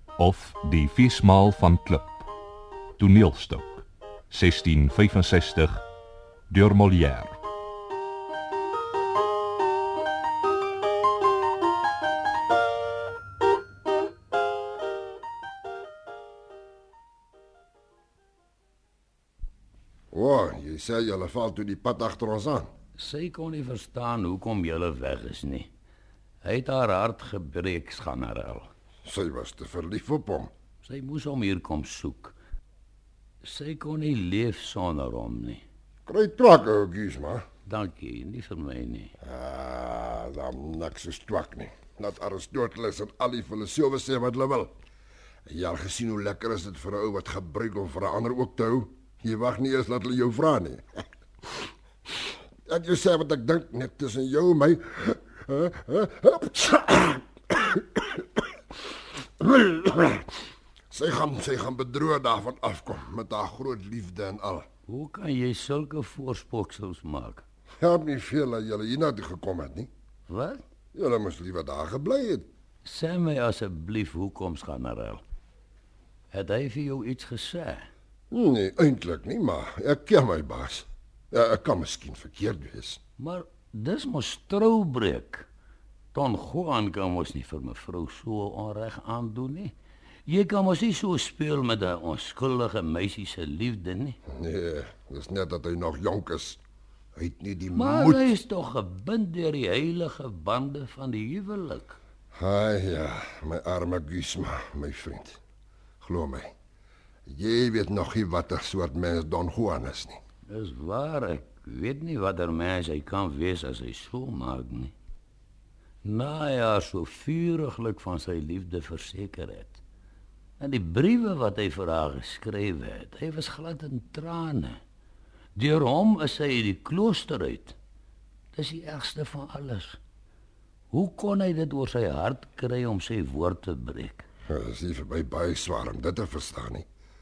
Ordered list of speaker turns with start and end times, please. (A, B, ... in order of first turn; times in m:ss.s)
0:00.2-0:02.2 A
0:03.0-0:05.8 A
0:06.5-0:07.4 A
0:20.1-0:22.7 B
0:23.0-0:25.7 C
0:26.4-0:28.7 C
0:29.0-0:30.5 B
0:30.8-0:32.3 C
0:33.4-0:35.6 C
0:36.1-0:37.4 B
0:37.6-0:39.1 C
0:39.2-0:44.7 B
0:45.5-0:51.7 B
0:52.7-0:58.4 B
0:59.4-1:00.3 B
1:00.9-1:04.7 B
1:04.9-1:07.4 C
1:07.8-1:09.9 B
1:10.3-1:10.6 C
1:10.9-1:12.5 B
1:12.8-1:15.2 C
1:16.3-1:17.9 C
1:18.3-1:23.0 B
1:23.2-1:25.4 C
1:26.1-1:29.7 C
1:30.2-1:34.2 C
1:34.3-1:36.6 B
1:37.2-1:38.3 B
1:37.7-1:42.0 C
1:42.3-1:45.4 B
1:46.0-1:46.5 B
1:47.3-1:50.2 B
1:50.5-1:54.9 C
1:56.0-1:59.8 C
2:00.6-2:04.8 C
2:05.6-2:07.8 C
2:08.5-2:10.0 C
2:10.9-2:14.2 C
2:14.5-2:16.8 B